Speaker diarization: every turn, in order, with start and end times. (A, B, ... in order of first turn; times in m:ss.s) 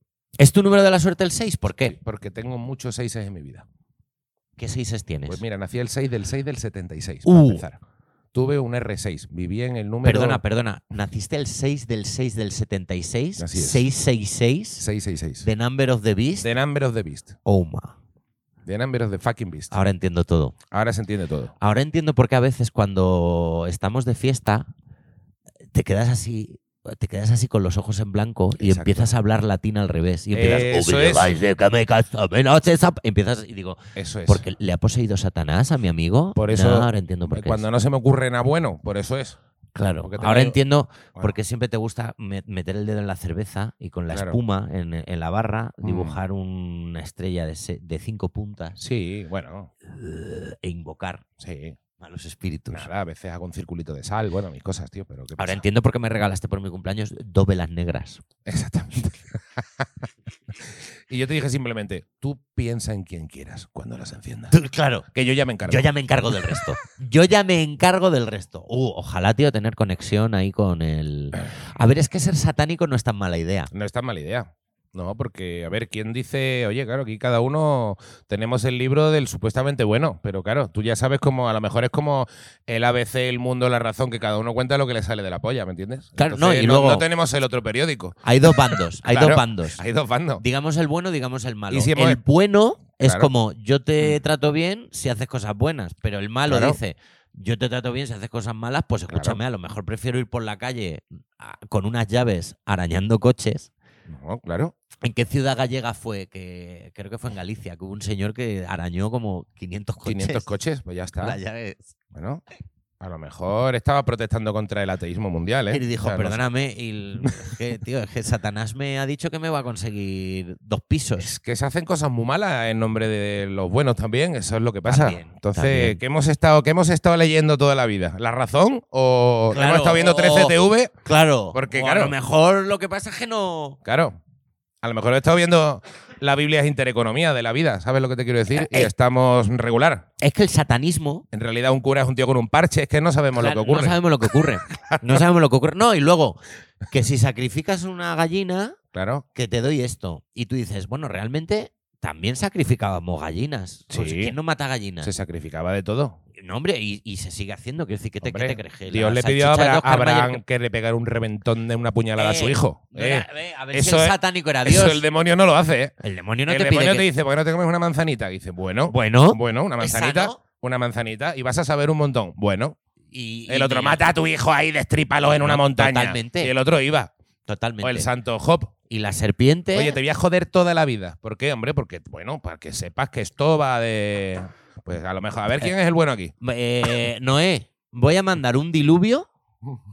0:00.4-0:02.0 A
0:01.8-0:03.7 B
0:04.6-0:05.4 A
0:05.3-0:07.8 B
0:07.2-0:07.6 A
0:08.3-0:10.4 B
0:10.0-0:14.9 A
0:13.4-0:13.8 B
0:14.8-0:15.5 B
0:15.4-0:16.5 A
0:16.4-0:17.4 B
0:17.4-0:18.0 A
0:18.6-0:19.8 B
0:19.7-0:20.6 A
0:20.7-0:21.5 B
0:21.6-0:24.7 A
0:25.7-0:37.6 A
0:28.6-0:29.1 B
0:30.3-0:31.4 B
0:34.0-0:34.4 B
0:36.4-0:39.4 B
0:39.8-0:48.8 A
0:40.0-0:40.6 B
0:44.1-0:44.4 B
0:45.8-0:46.2 B
0:48.8-0:49.7 B
0:49.8-0:51.2 A
0:51.4-0:51.8 B
0:52.0-0:52.9 A
0:52.7-0:55.6 B
0:55.4-0:58.2 A
0:58.5-0:59.9 B
1:00.5-1:04.6 B
1:04.5-1:05.1 A
1:05.1-1:06.7 B
1:05.6-1:13.7 A
1:13.7-1:30.4 B
1:26.2-1:27.0 A
1:28.2-1:29.8 A
1:30.4-1:43.7 A
1:31.7-1:32.2 B
1:33.0-1:33.3 B
1:36.5-1:36.8 B
1:39.1-1:39.4 B
1:44.1-1:44.8 B
1:45.0-1:50.5 A
1:50.0-1:51.4 B
1:51.2-1:51.9 A
1:52.1-1:52.4 B
1:53.0-1:56.4 B
1:55.7-2:01.3 A
2:01.2-2:11.0 B
2:04.9-2:06.0 A
2:09.5-2:13.8 A
2:11.5-2:12.2 B
2:13.8-2:14.2 B
2:14.8-2:20.1 B
2:18.5-2:18.9 A
2:20.2-2:21.2 A
2:21.3-2:24.0 B
2:23.4-2:28.8 A
2:24.7-2:25.2 B
2:28.9-2:29.2 B
2:29.3-2:35.1 A
2:33.9-2:34.3 B
2:35.0-2:36.2 B
2:36.4-2:40.4 A
2:38.2-2:46.0 B
2:42.2-2:45.0 A
2:46.0-2:47.1 A
2:46.5-2:52.8 B
2:48.9-2:50.4 A
2:53.1-2:54.1 A
2:53.5-2:57.1 B
2:55.4-2:56.5 A
2:57.5-2:58.1 A
2:57.8-2:58.7 B
2:58.9-3:00.0 A
2:59.7-3:06.3 B
3:06.4-3:09.3 A